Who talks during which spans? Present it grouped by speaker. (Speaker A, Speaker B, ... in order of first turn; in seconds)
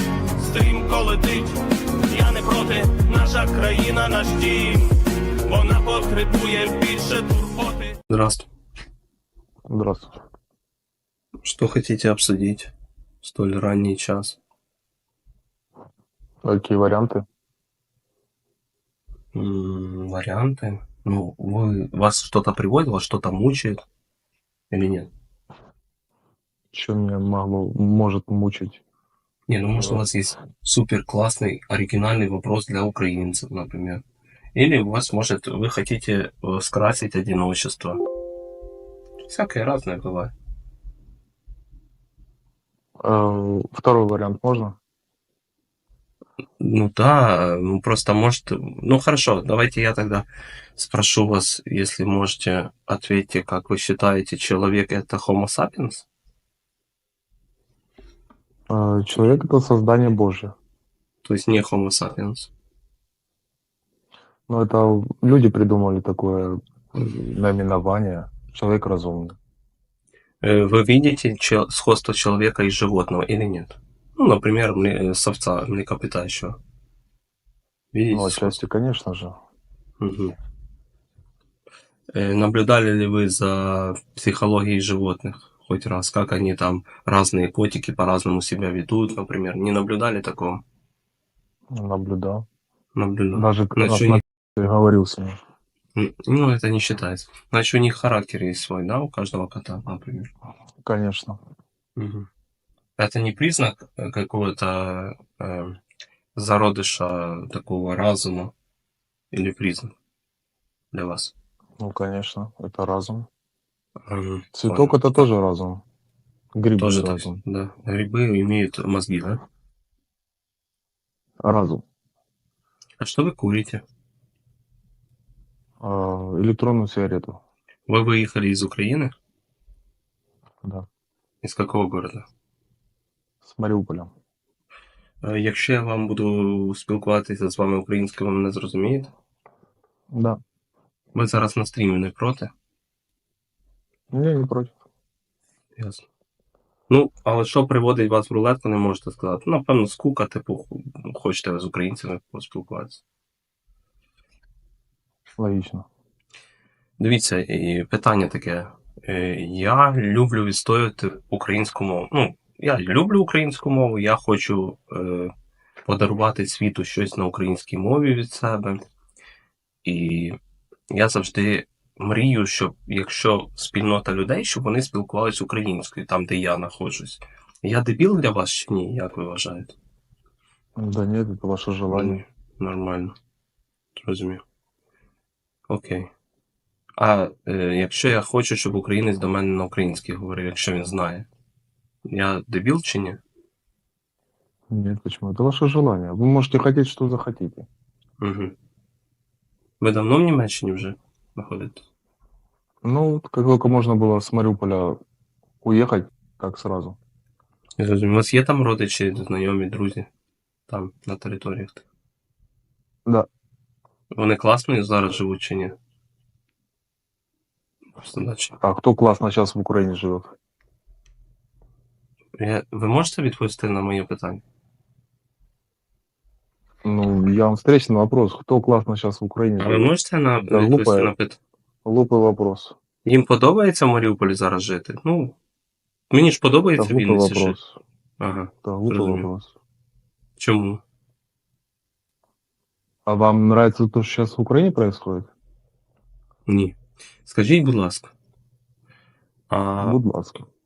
Speaker A: 0.3-4.9, 5.5-8.1
Speaker B: 8.1-8.5, 11.4-14.4, 19.3-23.8, 24.7-25.1, 29.5-34.0, 34.5-38.0, 39.2-40.3, 46.6-56.1, 61.2-62.5, 70.4-76.5, 77.9-78.6, 80.0-80.3, 82.1-90.6, 92.9-94.2, 95.9-100.3, 102.0-102.3, 103.0-105.8, 106.3-108.5, 109.3-109.9, 110.9-111.3, 114.1-115.0, 116.8-119.4, 123.0-123.8, 127.9-129.1, 131.4-132.2, 135.2-139.1, 141.1-142.5, 145.8-146.0, 146.9-153.0, 157.0-165.3, 165.8-168.8, 169.8-170.3, 170.9-179.7, 181.9-183.1, 183.9-184.4, 185.7-186.1, 187.0-191.3, 192.1-193.2, 198.2-198.5, 199.8-201.8, 207.8-210.1, 210.7-211.8, 214.1-215.8, 218.0-218.6, 222.3-224.4, 229.6-231.4, 233.0-235.3, 236.1-237.6, 238.2-239.3, 240.4-240.8, 246.4-248.1, 249.5-250.0
Speaker C: 9.7-10.1, 16.4-17.2, 26.7-28.8, 29.8-30.0, 43.0-44.8, 58.7-60.5, 64.5-69.3, 78.1-79.3, 91.7-92.5, 93.3-95.3, 100.8-101.4, 111.8-113.3, 114.5-115.8, 116.5-117.4, 121.4-121.8, 125.8-127.4, 133.4-134.1, 140.1-140.4, 144.1-144.8, 155.4-155.8, 180.8-182.2, 194.7-197.7, 202.8-205.0, 205.6-207.0, 218.6-220.3, 226.8-229.9, 230.4-231.1, 231.8-232.8, 236.8-237.8, 238.6-239.5, 243.1-245.3, 249.8-250.4